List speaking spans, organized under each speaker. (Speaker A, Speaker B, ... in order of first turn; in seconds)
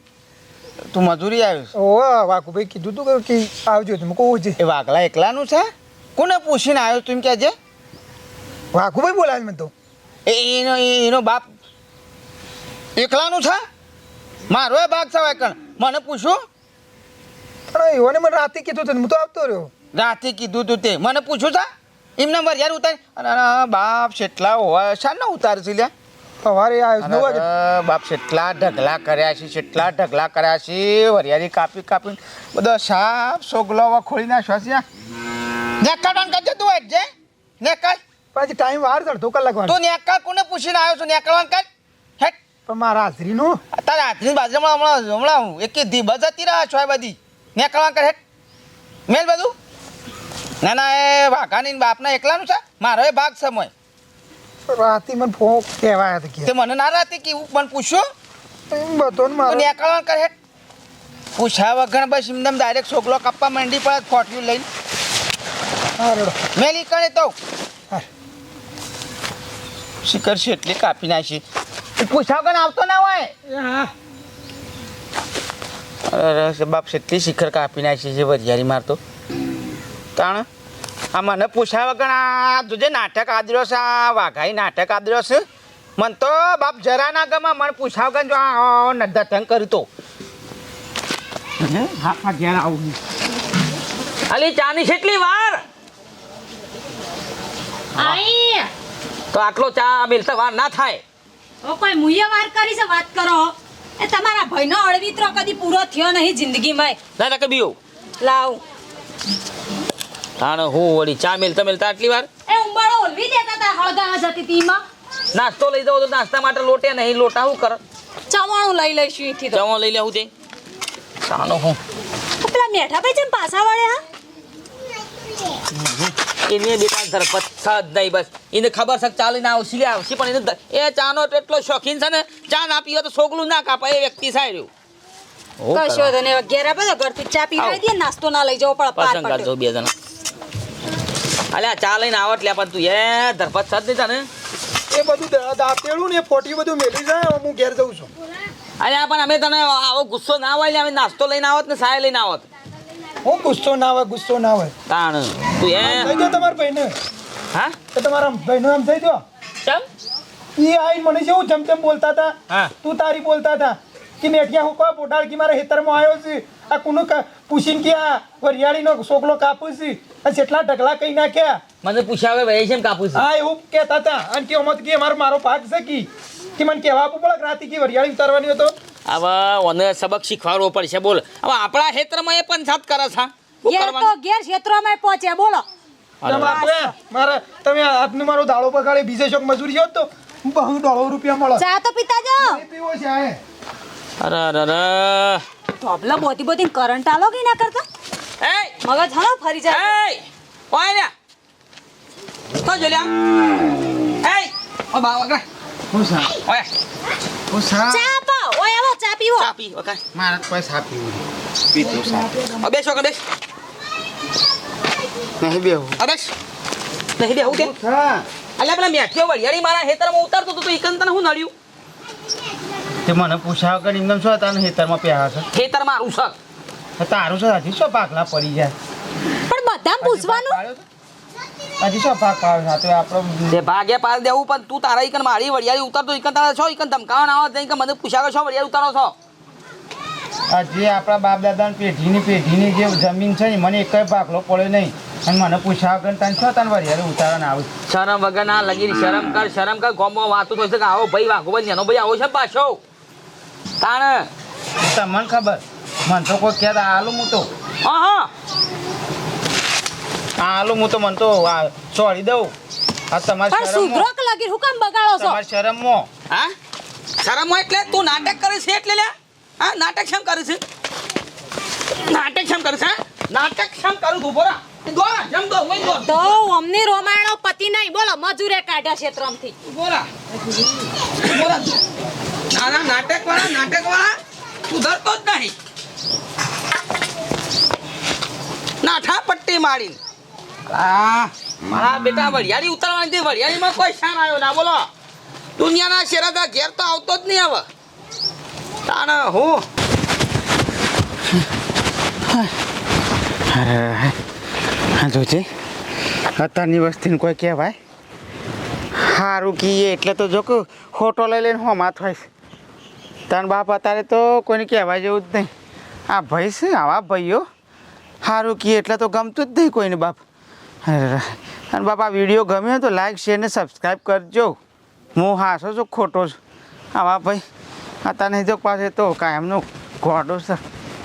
Speaker A: 0.9-1.7, 4.6-7.6, 10.3-11.5, 13.0-13.6, 14.5-16.4, 19.9-21.7, 22.2-25.9, 27.0-34.9, 35.8-37.1, 37.6-38.0, 39.7-41.6, 43.7-48.2, 49.1-49.5, 50.6-53.7, 56.5-58.0, 59.5-60.4, 61.4-64.7, 66.5-67.4, 70.0-71.4, 72.0-73.3, 76.1-79.0, 80.2-80.5, 81.1-85.4, 86.0-89.9, 91.6-93.0, 205.9-206.3, 207.5-208.1, 210.1-212.3, 215.4-216.0, 217.4-218.3, 223.1-225.5, 227.0-228.8, 230.0-230.8, 231.8-233.6, 240.5-247.7, 254.8-257.5, 260.4-262.5, 263.1-264.1, 265.1-266.1, 302.3-302.5, 303.5-304.2, 305.0-305.5, 306.4-307.8, 309.0-312.3, 313.3-315.5, 316.1-317.4, 318.2-320.2, 320.9-324.6, 325.2-326.4, 326.9-327.4, 328.1-330.6
Speaker B: 1.8-4.6, 8.7-9.7, 17.7-19.7, 26.4-27.4, 38.3-39.8, 42.7-43.6, 54.7-56.5, 58.7-59.7, 66.0-66.4, 73.5-73.9, 144.9-148.1, 153.2-154.7, 155.8-156.9, 157.9-159.2, 160.6-171.6, 173.2-178.8, 186.3-191.6, 192.4-193.4
Speaker C: 94.3-95.6, 99.3-101.0, 107.2-107.8, 110.4-112.3, 115.3-117.8, 119.5-120.3, 121.2-121.8, 125.8-134.7, 135.6-136.1, 139.0-139.9, 141.5-144.3, 148.8-152.4, 154.9-156.2, 171.8-173.2, 179.1-184.1, 186.2-186.7, 194.2-195.4, 198.4-198.8, 199.7-201.1, 202.6-203.1, 204.2-205.4, 206.4-206.7, 209.4-210.0, 212.3-213.2, 216.0-216.3, 217.2-217.7, 218.6-221.5, 225.5-226.4, 233.5-239.2, 247.9-252.8, 253.8-254.3, 257.8-258.3, 267.2-270.6, 272.1-276.3, 279.6-280.1, 281.2-281.8, 282.5-284.1, 284.7-285.5, 288.8-290.0, 290.7-294.9, 295.6-297.6, 298.9-299.6
Speaker D: 98.0-98.7, 101.6-107.0, 108.2-108.6, 112.5-114.8, 118.3-119.6, 122.4-124.0, 135.7-139.5, 183.7-185.6, 186.3-186.9, 191.6-192.6, 195.8-197.8, 198.8-200.0, 207.9-209.5, 229.5-230.6, 263.5-265.4, 276.0-279.6